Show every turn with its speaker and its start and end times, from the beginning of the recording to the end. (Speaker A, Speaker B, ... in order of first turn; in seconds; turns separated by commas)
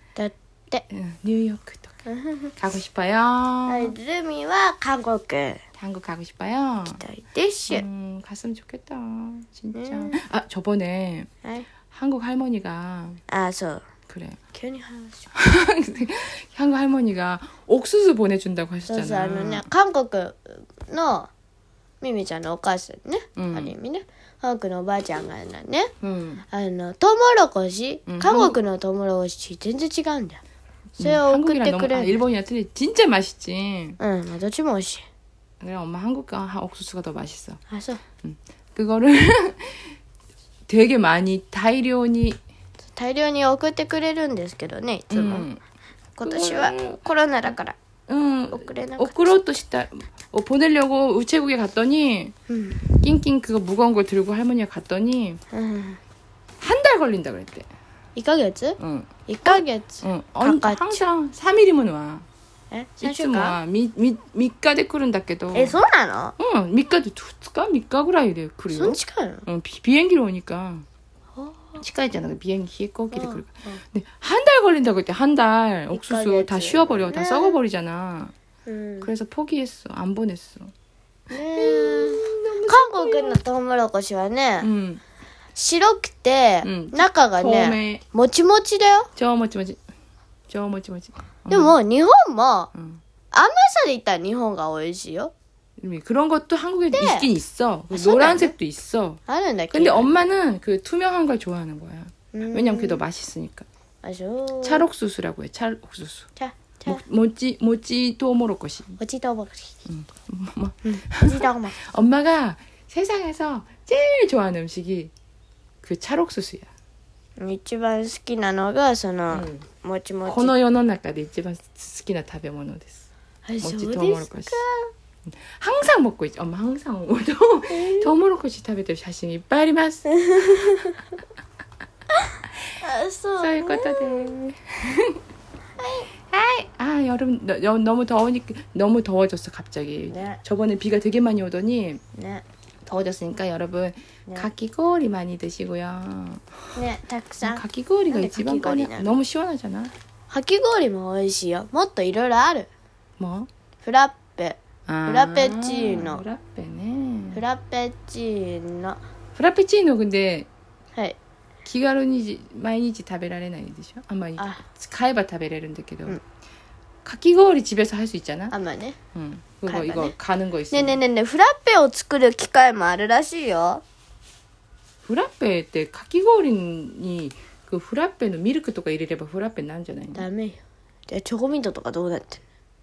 Speaker A: 0.1-0.8, Speaker B: 0.9-1.9, Speaker A: 2.0-2.5, Speaker B: 2.6-3.9, Speaker A: 3.7-5.6, Speaker B: 5.8-7.0, Speaker A: 7.0-7.8, Speaker B: 7.7-11.3, Speaker A: 9.7-10.2, Speaker B: 11.9-13.2, Speaker A: 13.3-13.8, Speaker B: 14.1-14.4, Speaker A: 14.5-15.3, Speaker B: 15.3-19.6, Speaker A: 18.9-21.3, Speaker A: 22.0-25.9, Speaker B: 23.4-23.7, Speaker B: 26.0-26.4, Speaker A: 26.5-30.4, Speaker B: 28.1-28.6, Speaker B: 30.9-34.0, Speaker A: 31.0-32.2, Speaker A: 34.0-35.0, Speaker B: 35.6-37.6, Speaker A: 37.7-38.0, Speaker B: 38.2-39.8, Speaker B: 40.7-42.4, Speaker A: 42.9-45.5, Speaker B: 45.1-45.6, Speaker A: 46.2-47.8, Speaker B: 46.2-47.0, Speaker B: 48.1-52.3, Speaker A: 48.5-49.4, Speaker A: 52.5-52.9, Speaker B: 53.0-55.4, Speaker A: 55.5-56.0, Speaker B: 56.6-57.7, Speaker A: 58.1-61.1, Speaker B: 58.8-62.2, Speaker A: 62.7-63.6, Speaker B: 63.0-65.8, Speaker A: 65.5-66.3, Speaker B: 66.4-70.8, Speaker A: 68.7-69.4, Speaker A: 71.3-71.8, Speaker B: 71.8-78.3, Speaker A: 73.1-73.8, Speaker A: 75.9-77.6, Speaker A: 78.7-79.1, Speaker B: 79.0-80.7, Speaker A: 81.3-84.7, Speaker B: 81.5-83.4, Speaker B: 84.6-85.0, Speaker A: 85.5-89.1, Speaker B: 86.6-88.0, Speaker B: 89.2-89.8, Speaker B: 90.5-91.8, Speaker A: 91.5-92.7, Speaker B: 92.7-93.0, Speaker A: 93.3-95.3, Speaker B: 95.8-99.2, Speaker A: 96.9-97.3, Speaker A: 97.9-98.5, Speaker A: 99.3-100.1, Speaker B: 99.7-103.7, Speaker A: 102.3-103.0, Speaker A: 104.0-104.9, Speaker B: 104.6-106.3, Speaker A: 106.4-107.0, Speaker B: 106.8-109.0, Speaker A: 109.0-109.7, Speaker B: 109.9-115.1, Speaker A: 110.8-111.8, Speaker B: 115.8-116.7, Speaker A: 117.4-120.5, Speaker B: 119.3-119.6, Speaker B: 120.2-123.0, Speaker A: 123.4-124.9, Speaker B: 123.6-124.6, Speaker B: 125.3-130.8, Speaker A: 127.7-128.1, Speaker A: 130.1-131.0, Speaker A: 132.1-134.4, Speaker B: 133.4-135.2, Speaker A: 135.8-136.1, Speaker B: 136.3-142.0, Speaker A: 140.1-140.4, Speaker A: 142.1-142.4, Speaker B: 142.8-146.6, Speaker A: 146.7-149.2, Speaker B: 147.4-149.9, Speaker A: 150.3-152.7, Speaker B: 153.2-153.5, Speaker A: 153.8-156.2, Speaker B: 154.9-157.4, Speaker A: 157.3-159.0, Speaker B: 159.3-160.5, Speaker B: 161.7-166.2, Speaker A: 164.4-164.6, Speaker B: 167.0-168.5, Speaker A: 168.5-169.0, Speaker B: 169.1-171.0, Speaker A: 169.7-170.1, Speaker A: 170.7-173.8, Speaker B: 175.0-180.2, Speaker A: 180.1-182.4